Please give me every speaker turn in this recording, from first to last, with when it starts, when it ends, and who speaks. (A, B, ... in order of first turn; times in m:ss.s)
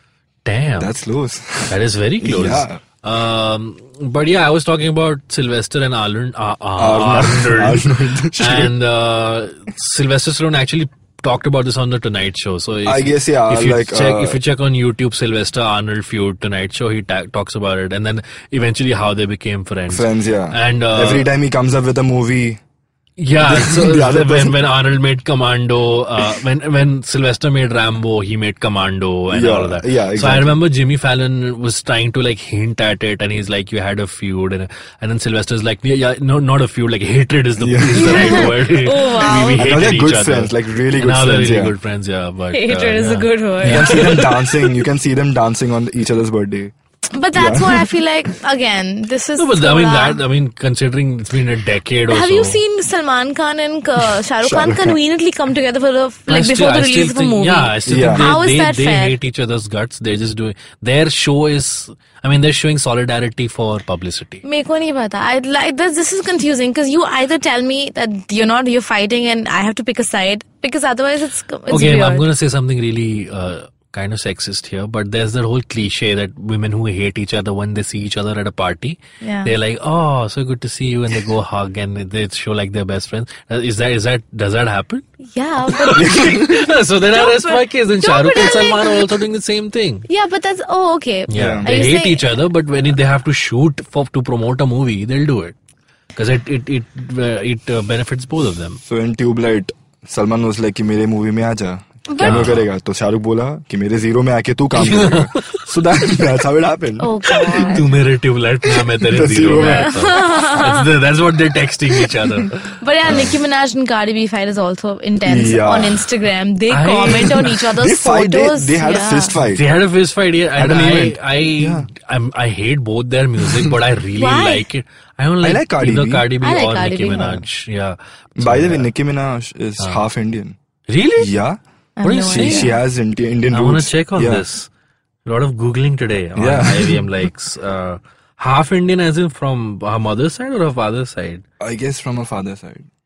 0:00.4-0:00.9 A
0:00.8-0:02.8 B
0:01.7-0:21.3 A
0:06.8-0:08.7 B
0:12.8-0:14.4 B
0:19.9-0:22.6 B
0:23.2-0:44.4 A
0:23.4-0:24.6 B
0:29.3-0:30.6 B
0:37.6-0:38.6 B
0:37.9-0:39.6 C
0:39.3-0:41.7 B
0:42.5-0:44.3 C
0:43.6-0:46.7 B
0:47.1-0:50.2 C
0:47.4-0:47.9 B
0:49.4-0:52.6 A
0:52.1-0:59.2 C
0:54.4-0:55.0 B
0:56.3-1:04.4 A
0:57.9-0:58.3 B
1:04.4-1:12.3 C
1:11.7-1:25.0 A
1:19.2-1:19.5 C
1:25.2-1:26.5 C
1:25.7-1:30.1 A
1:25.9-1:26.5 B
1:27.1-1:29.0 C
1:30.1-1:32.4 C
1:31.3-1:35.6 A
1:31.3-1:31.8 B
1:36.2-1:38.8 A
1:38.8-1:47.1 B
1:42.1-1:42.5 C
1:42.2-1:42.6 A
1:44.8-1:45.6 A
1:47.0-1:47.9 C
1:47.6-1:53.3 A
1:48.9-1:50.0 B
1:49.5-1:50.9 C
1:52.8-1:59.4 C
1:55.2-1:56.0 B
1:56.7-1:57.6 A
1:57.7-1:59.6 B
1:59.4-2:08.9 A
2:00.6-2:01.9 B
2:03.4-2:03.7 B
2:04.2-2:04.7 C
2:05.4-2:06.3 B
2:06.4-2:07.4 C
2:08.4-2:10.6 B
2:10.9-2:11.3 A
2:11.2-2:11.6 B
2:12.0-2:12.7 C
2:12.0-2:12.8 A
2:12.3-2:14.4 B
2:13.5-2:14.7 A
2:15.3-2:21.4 A
2:16.4-2:17.1 B
2:21.6-2:22.9 B